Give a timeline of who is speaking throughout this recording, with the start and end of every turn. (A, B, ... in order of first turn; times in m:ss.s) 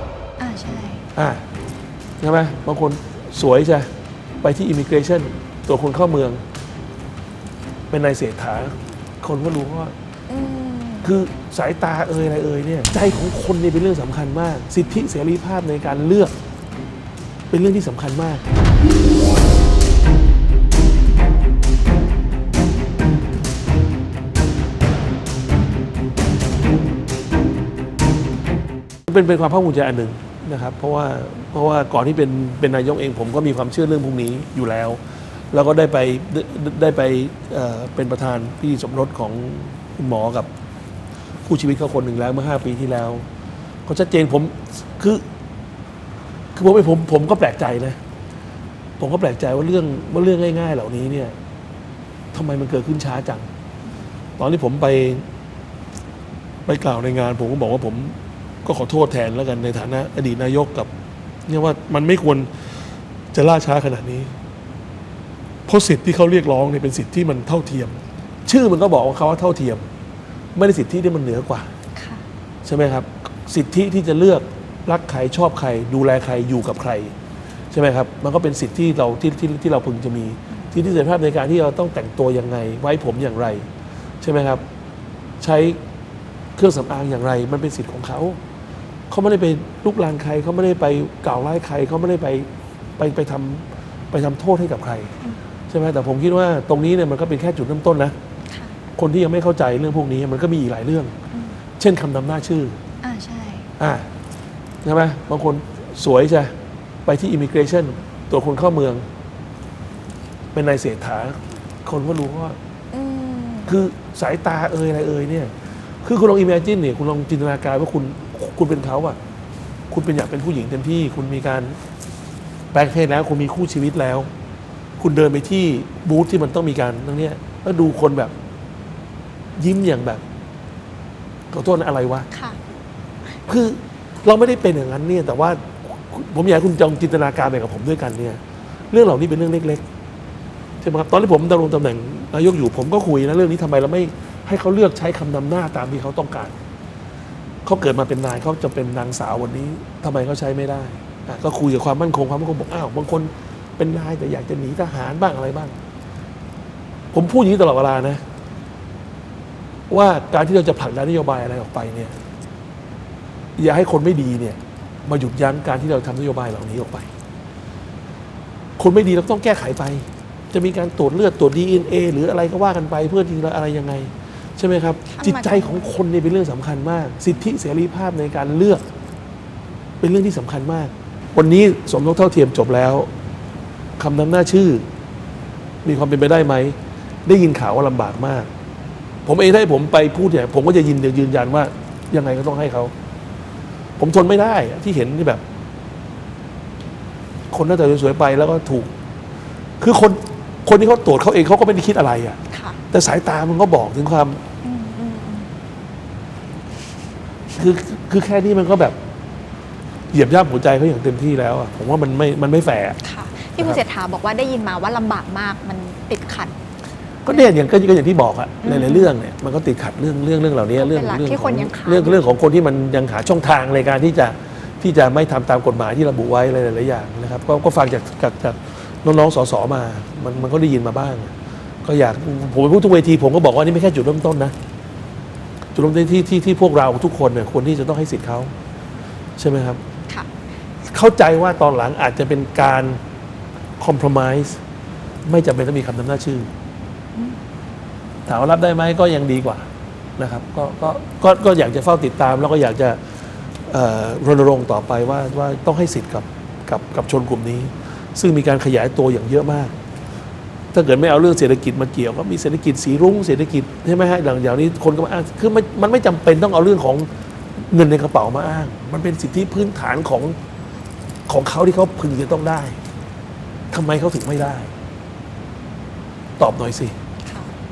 0:00.4-0:01.0 A
0:01.1-0:01.4 B
0:02.2-0:03.9 B
0:04.4-0:06.4 B
0:07.9-0:09.9 B
0:10.3-0:11.1 A
0:11.0-0:16.3 B
0:17.5-0:18.4 B
0:29.1-0:35.0 B
0:35.5-0:40.5 B
0:41.4-0:43.2 B
0:43.8-0:45.2 B
0:46.5-0:48.0 B
0:49.0-0:51.3 B
0:52.3-0:53.5 B
0:54.4-0:55.2 B
0:56.6-1:00.9 B
1:01.5-1:02.5 B
1:03.3-1:04.3 B
1:05.7-1:09.8 B
1:10.6-1:11.7 B
1:12.0-1:12.2 A
1:12.6-1:17.1 B
1:17.7-1:23.7 B
1:24.2-1:24.6 B
1:25.4-1:25.8 B
1:26.6-1:28.4 B
1:29.1-1:35.1 B
1:35.7-1:38.1 B
1:38.5-1:38.7 A
1:39.0-1:41.1 B
1:41.3-1:41.6 A
1:41.8-1:42.8 B
1:43.0-1:43.7 A
1:43.8-1:44.1 B
1:44.8-1:46.5 B
1:47.0-1:49.0 B
1:50.5-1:52.6 B
1:52.9-1:53.7 A
1:53.7-1:55.5 B
1:56.0-1:59.2 B
1:59.9-2:01.8 B
2:02.7-2:04.3 B
2:05.0-2:08.3 B
2:09.6-2:10.2 B
2:11.5-2:12.3 B
2:12.3-2:12.6 A
2:13.5-2:18.4 B
2:18.9-2:19.8 B
2:20.8-2:26.5 B
2:27.6-2:35.7 B
2:37.1-2:38.2 B
2:39.9-2:42.2 B
2:43.6-2:47.1 B
2:48.8-2:58.8 B
2:55.1-2:55.9 A
3:00.0-3:03.1 B
3:04.0-3:04.8 B
3:05.8-3:08.5 B
3:09.2-3:12.9 B
3:14.0-3:15.4 B
3:17.5-3:18.9 B
3:19.8-3:22.4 B
3:22.5-3:22.8 A
3:22.9-3:24.4 B
3:24.6-3:25.5 A
3:27.6-3:29.0 B
3:30.1-3:33.0 B
3:33.0-3:36.5 A
3:37.2-3:51.3 B
3:38.6-3:39.1 A
3:40.8-3:42.2 A
3:51.8-3:54.5 B
3:55.8-3:58.5 B
3:59.4-3:59.8 B
4:00.9-4:03.0 B
4:03.8-4:04.6 B
4:05.2-4:06.5 B
4:08.2-4:09.6 B
4:10.2-4:13.0 B
4:13.7-4:19.7 B
4:20.7-4:27.1 B
4:27.7-4:30.4 B
4:31.3-4:32.8 B
4:33.7-4:34.7 B
4:36.4-4:36.9 B
4:37.2-4:37.5 A